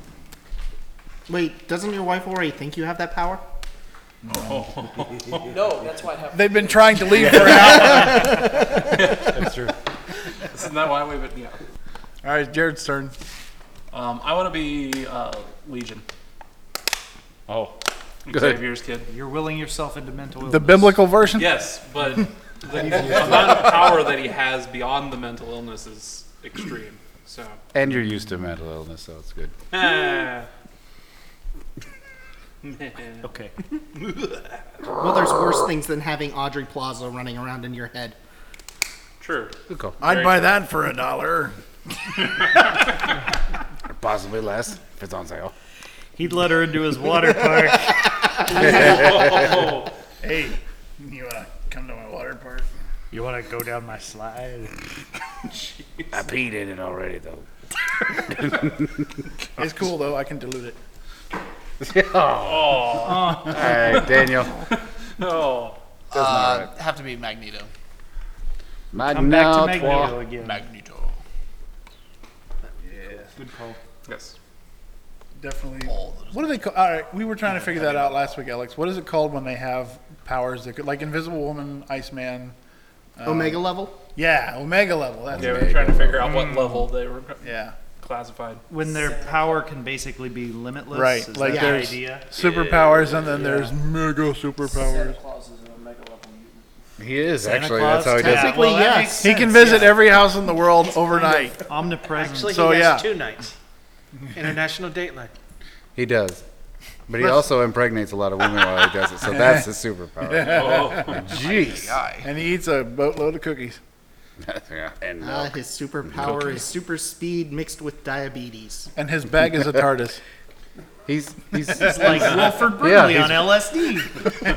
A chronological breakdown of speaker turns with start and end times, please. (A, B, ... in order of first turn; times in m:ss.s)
0:01.3-0:03.4 A
0:04.3-0:04.7 B
0:04.3-0:05.5 C
0:05.5-0:07.2 D
0:06.3-0:08.5 B
0:07.4-0:09.4 C
0:09.3-0:09.7 E
0:10.5-0:11.6 C
0:12.2-0:13.2 B
0:13.9-0:16.0 C
0:17.5-0:17.8 E
0:18.3-0:19.1 C
0:18.3-0:18.6 E
0:19.1-0:21.0 F
0:20.4-0:21.6 B
0:21.4-0:27.6 C
0:22.8-0:23.7 B
0:27.7-0:29.5 E
0:29.7-0:30.5 C
0:32.6-0:33.2 C
0:33.2-0:33.5 F
0:35.0-0:38.2 A
0:39.2-0:40.5 C
0:39.7-0:40.0 E
0:40.0-0:41.6 B
0:43.9-0:45.5 E
0:46.2-0:48.0 F
0:48.5-0:49.9 C
0:48.7-0:49.3 E
0:50.2-0:52.7 B
0:53.1-0:54.7 F
0:55.5-0:56.1 C
0:56.1-0:57.4 E
0:58.2-0:59.1 E
0:59.6-1:00.8 B
1:01.8-1:04.5 E
1:02.4-1:04.3 C
1:03.1-1:03.6 F
1:05.2-1:05.8 C
1:06.1-1:07.7 G
1:06.1-1:06.7 E
1:08.9-1:10.2 E
1:09.0-1:10.6 F
1:10.3-1:11.2 G
1:12.8-1:13.3 B
1:13.4-1:13.8 F
1:14.1-1:14.4 C
1:15.4-1:22.6 B
1:15.8-1:16.4 G
1:23.2-1:26.3 B
1:23.2-1:24.0 A
1:25.3-1:26.3 E
1:25.4-1:27.5 C
1:27.4-1:27.8 B
1:28.0-1:28.6 C
1:28.7-1:32.3 F
1:30.9-1:35.2 B
1:31.5-1:31.8 A
1:32.4-1:33.2 C
1:33.3-1:33.8 F
1:34.6-1:36.6 D
1:37.0-1:38.8 E
1:37.4-1:40.2 F
1:38.2-1:39.3 A
1:39.2-1:41.6 B
1:41.1-1:42.7 F
1:42.1-1:43.5 H
1:42.5-1:43.1 B
1:44.3-1:45.3 H
1:46.0-1:46.4 E
1:47.1-1:52.0 E
1:50.2-1:51.3 B
1:50.4-1:51.2 C
1:51.3-1:52.3 G
1:52.2-1:53.8 B
1:54.4-1:55.5 E
1:55.2-1:58.9 A
1:56.1-1:56.6 E
1:59.0-2:00.2 B
2:01.1-2:03.6 E
2:01.8-2:04.3 F
2:01.8-2:02.3 B